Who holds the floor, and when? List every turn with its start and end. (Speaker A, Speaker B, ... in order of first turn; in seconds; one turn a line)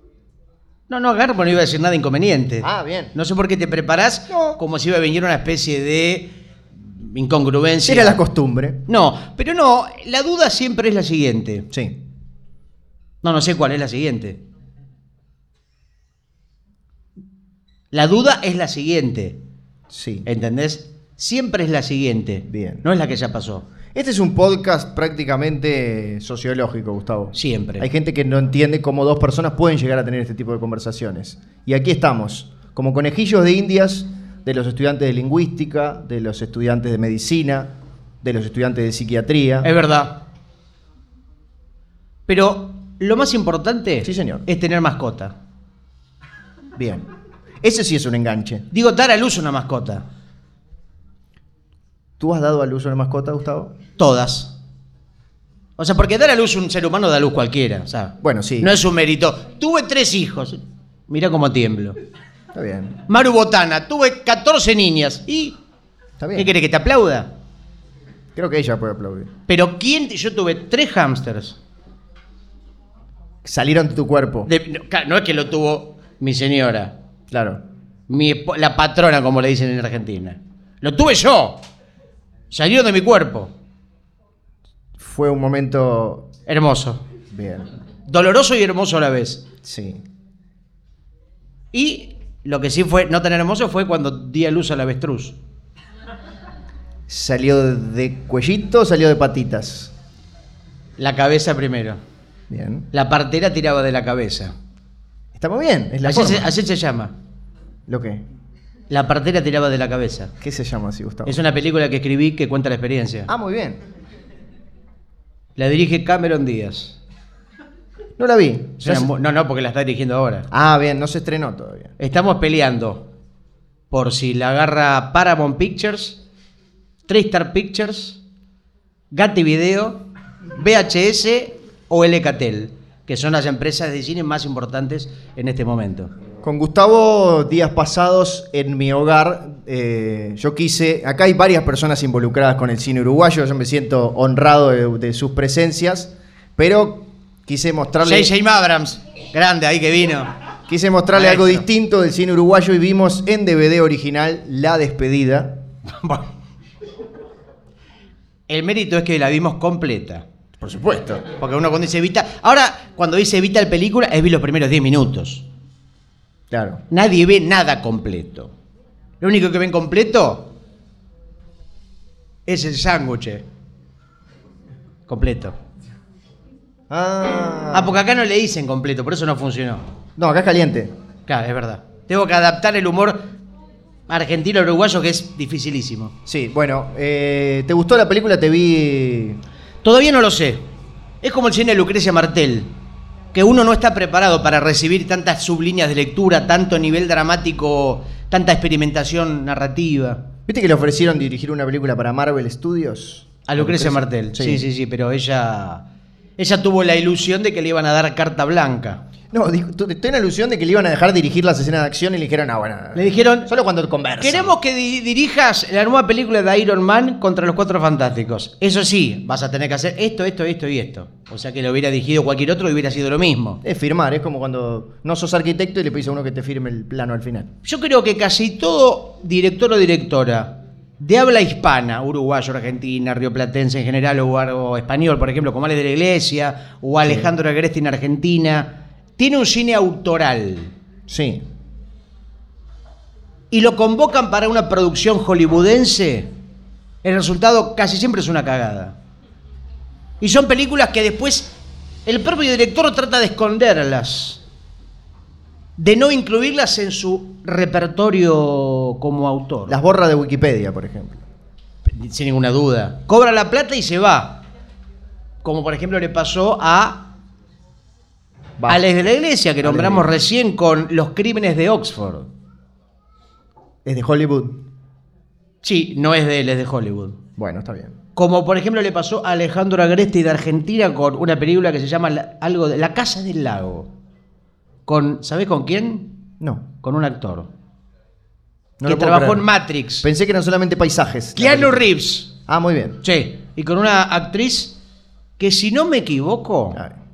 Speaker A: 0.9-8.2
Speaker B: 2.6-3.1
Speaker B: 4.3-4.6
Speaker B: 7.8-8.8
Speaker A: 8.9-11.7
Speaker B: 11.7-12.0
Speaker A: 13.2-14.4
Speaker A: 17.9-19.4
Speaker B: 19.9-20.2
Speaker A: 20.2-23.7
Speaker B: 22.5-22.8
Speaker B: 23.9-39.7
Speaker A: 27.3-27.9
Speaker A: 39.6-40.2
Speaker A: 42.3-45.3
Speaker B: 44.0-44.4
Speaker B: 46.8-47.1
Speaker B: 47.6-48.6
Speaker A: 48.7-50.0
Speaker B: 52.2-53.7
Speaker A: 54.0-54.5
Speaker A: 55.8-62.0
Speaker B: 58.2-58.8
Speaker B: 62.5-63.0
Speaker A: 63.1-65.6
Speaker B: 66.2-66.5
Speaker A: 66.3-67.3
Speaker B: 68.3-69.3
Speaker A: 69.5-71.6
Speaker B: 73.4-74.5
Speaker A: 74.5-76.9
Speaker B: 77.3-77.6
Speaker A: 78.1-81.6
Speaker A: 82.5-83.5
Speaker B: 85.0-86.3
Speaker A: 86.5-87.0
Speaker B: 87.3-87.7
Speaker A: 88.0-89.4
Speaker B: 89.6-90.0
Speaker A: 91.7-95.3
Speaker B: 97.1-99.9
Speaker A: 101.0-102.0
Speaker B: 102.5-102.8
Speaker A: 102.9-104.5
Speaker B: 105.3-106.5
Speaker A: 106.0-107.1
Speaker B: 107.9-108.2
Speaker A: 108.9-110.3
Speaker B: 110.4-111.4
Speaker A: 111.2-113.3
Speaker B: 113.3-113.8
Speaker A: 115.5-117.0
Speaker B: 118.2-119.1
Speaker A: 118.8-120.5
Speaker B: 120.5-121.9
Speaker A: 122.0-123.1
Speaker A: 123.9-126.2
Speaker A: 127.1-128.2
Speaker A: 129.1-130.0
Speaker A: 130.6-136.1
Speaker B: 136.4-148.3
Speaker A: 148.0-150.3
Speaker B: 150.7-155.6
Speaker A: 151.1-151.6
Speaker A: 155.9-156.2
Speaker A: 158.5-160.2
Speaker B: 160.6-161.2
Speaker A: 161.2-165.4
Speaker B: 166.5-166.8
Speaker A: 166.9-168.5
Speaker A: 169.2-170.5
Speaker A: 172.4-173.4
Speaker A: 175.1-175.6
Speaker B: 176.9-178.0
Speaker A: 177.7-179.8
Speaker B: 180.2-180.9
Speaker A: 181.3-183.2
Speaker A: 184.1-186.1
Speaker B: 186.2-189.4
Speaker A: 189.8-190.6
Speaker A: 191.2-192.7
Speaker A: 193.3-200.2
Speaker B: 200.5-204.6
Speaker A: 203.5-205.8
Speaker A: 206.4-209.0
Speaker B: 209.3-214.5
Speaker A: 212.9-213.5
Speaker A: 214.2-223.6
Speaker B: 223.6-227.5
Speaker A: 227.6-240.7
Speaker B: 237.0-237.3
Speaker B: 241.1-241.4
Speaker A: 243.5-246.3
Speaker A: 247.0-248.9
Speaker A: 250.2-251.5
Speaker A: 252.1-254.4
Speaker A: 255.8-259.8
Speaker B: 259.7-261.2
Speaker A: 261.9-264.4
Speaker A: 265.4-267.1
Speaker B: 268.6-268.9
Speaker A: 268.7-272.3
Speaker B: 269.6-270.1
Speaker B: 273.8-274.6
Speaker A: 275.6-277.2
Speaker B: 277.4-277.9
Speaker A: 278.1-283.9
Speaker A: 284.9-286.2
Speaker B: 286.4-286.6
Speaker A: 286.8-287.5
Speaker B: 288.8-289.5
Speaker A: 288.8-290.1
Speaker B: 290.0-291.9
Speaker A: 291.4-292.3
Speaker B: 292.5-293.0
Speaker A: 293.0-294.8
Speaker A: 295.4-296.8